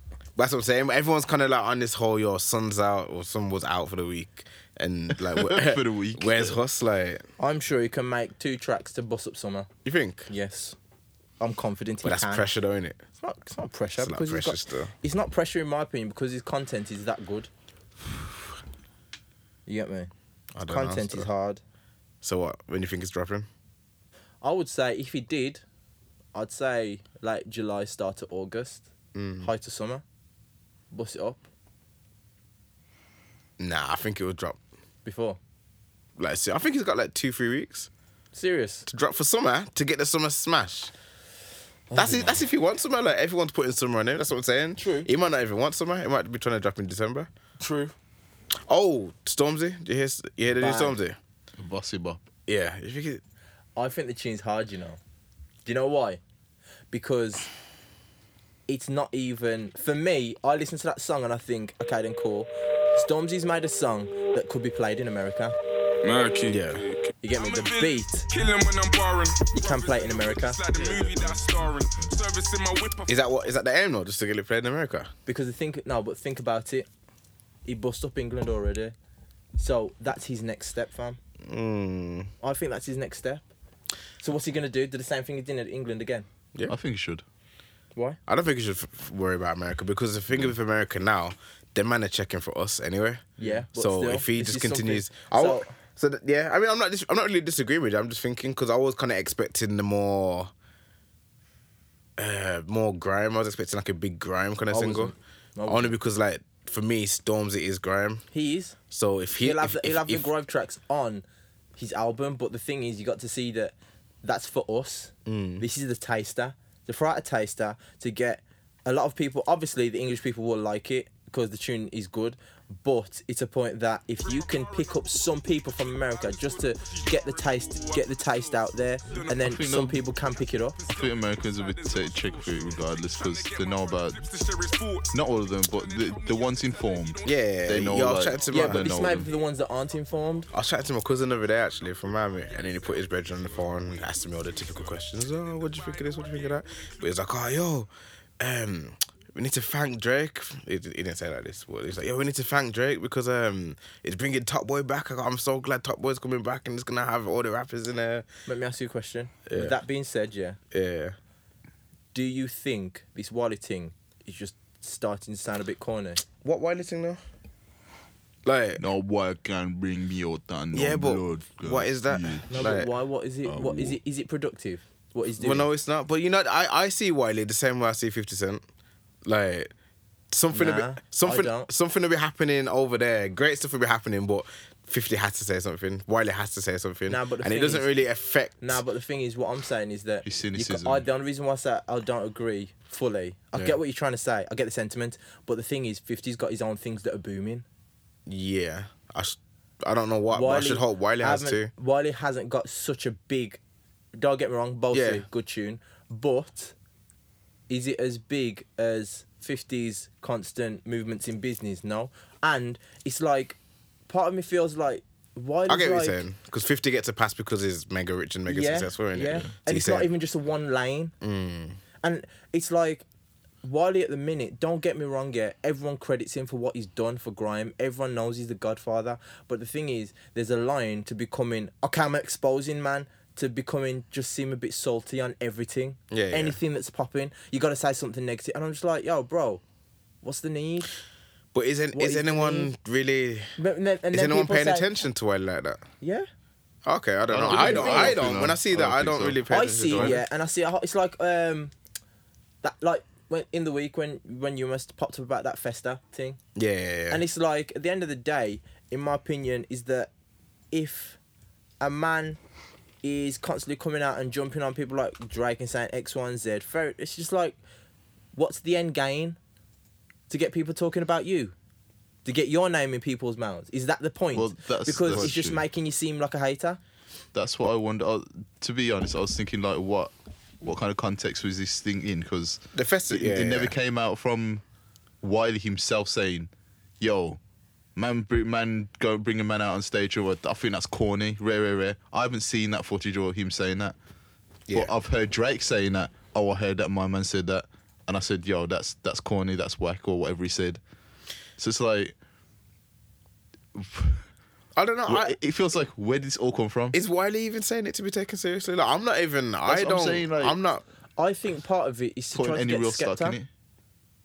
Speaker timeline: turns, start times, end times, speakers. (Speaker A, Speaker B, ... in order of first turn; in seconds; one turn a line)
Speaker A: 0.4-7.2
Speaker B: 5.2-6.5
Speaker C: 7.4-9.7
Speaker A: 9.8-10.3
Speaker C: 10.3-10.8
Speaker C: 11.4-12.5
Speaker A: 12.0-13.0
Speaker C: 13.2-17.5
Speaker A: 14.0-14.9
Speaker C: 19.7-20.1
Speaker A: 20.6-21.3
Speaker C: 20.7-21.6
Speaker A: 22.2-23.5
Speaker C: 24.4-25.6
Speaker C: 26.4-28.9
Speaker A: 29.1-29.5
Speaker C: 29.4-30.0
Speaker C: 30.9-31.4
Speaker A: 33.6-34.6
Speaker C: 35.0-35.4
Speaker A: 36.2-37.9
Speaker C: 38.3-38.9
Speaker A: 38.9-40.9
Speaker C: 41.9-42.4
Speaker A: 42.0-47.3
Speaker C: 44.8-45.1
Speaker C: 47.6-47.9
Speaker A: 48.7-51.2
Speaker C: 50.6-51.0
Speaker B: 51.6-52.3
Speaker A: 52.5-53.2
Speaker C: 53.8-55.0
Speaker C: 55.7-56.2
Speaker C: 56.9-57.5
Speaker C: 58.7-65.6
Speaker D: 66.0-73.1
Speaker A: 66.5-66.8
Speaker C: 67.2-68.3
Speaker C: 69.5-71.5
Speaker A: 73.1-75.1
Speaker C: 75.3-76.9
Speaker C: 77.7-79.0
Speaker C: 79.6-81.2
Speaker A: 81.4-82.3
Speaker C: 82.4-83.4
Speaker C: 84.2-86.3
Speaker B: 86.7-87.2
Speaker A: 88.3-100.5
Speaker C: 93.4-95.7
Speaker A: 102.2-105.2
Speaker C: 104.7-106.0
Speaker A: 105.7-108.2
Speaker C: 108.3-108.8
Speaker A: 108.9-110.3
Speaker C: 109.4-111.2
Speaker C: 111.8-130.8
Speaker A: 115.3-115.7
Speaker D: 124.2-129.7
Speaker B: 129.3-130.0
Speaker D: 130.3-137.4
Speaker B: 130.9-134.2
Speaker B: 135.1-139.3
Speaker A: 137.2-139.0
Speaker C: 138.5-140.5
Speaker A: 140.5-158.3
Speaker C: 158.5-160.6
Speaker A: 159.5-159.8
Speaker A: 160.7-161.2
Speaker C: 162.1-166.2
Speaker A: 166.4-167.2
Speaker A: 168.4-168.8
Speaker B: 168.8-172.7
Speaker A: 170.7-172.9
Speaker C: 172.5-175.7
Speaker B: 173.4-174.0
Speaker A: 175.4-178.6
Speaker A: 179.2-179.7
Speaker A: 180.3-188.8
Speaker C: 180.5-181.7
Speaker C: 187.1-187.9
Speaker C: 188.6-197.7
Speaker B: 190.2-191.0
Speaker A: 198.3-201.7
Speaker C: 200.3-203.6
Speaker C: 204.2-206.8
Speaker A: 204.9-205.2
Speaker C: 207.7-216.2
Speaker A: 215.7-220.1
Speaker C: 218.5-221.2
Speaker A: 221.2-221.8
Speaker C: 222.0-223.1
Speaker C: 223.6-239.6
Speaker A: 236.1-236.6
Speaker C: 240.2-240.9
Speaker A: 241.5-243.5
Speaker C: 241.9-242.7
Speaker C: 243.6-244.9
Speaker A: 244.1-245.8
Speaker C: 246.0-246.3
Speaker A: 246.9-250.2
Speaker B: 247.3-250.2
Speaker C: 247.5-248.2
Speaker C: 249.5-251.7
Speaker C: 252.6-256.4
Speaker A: 256.6-257.2
Speaker C: 257.1-260.1
Speaker C: 260.7-261.2
Speaker C: 261.8-262.4
Speaker C: 263.0-267.6
Speaker C: 268.4-269.4
Speaker C: 270.3-271.5
Speaker C: 272.2-276.8
Speaker B: 274.3-275.6
Speaker B: 277.3-284.6
Speaker A: 282.7-283.8
Speaker B: 285.2-287.4
Speaker B: 288.0-294.0
Speaker B: 294.7-300.8
Speaker B: 301.6-302.1
Speaker B: 303.8-304.2
Speaker A: 304.8-305.4
Speaker B: 305.1-307.0
Speaker A: 306.9-310.8
Speaker B: 309.7-310.6
Speaker C: 311.2-313.4
Speaker B: 312.3-313.5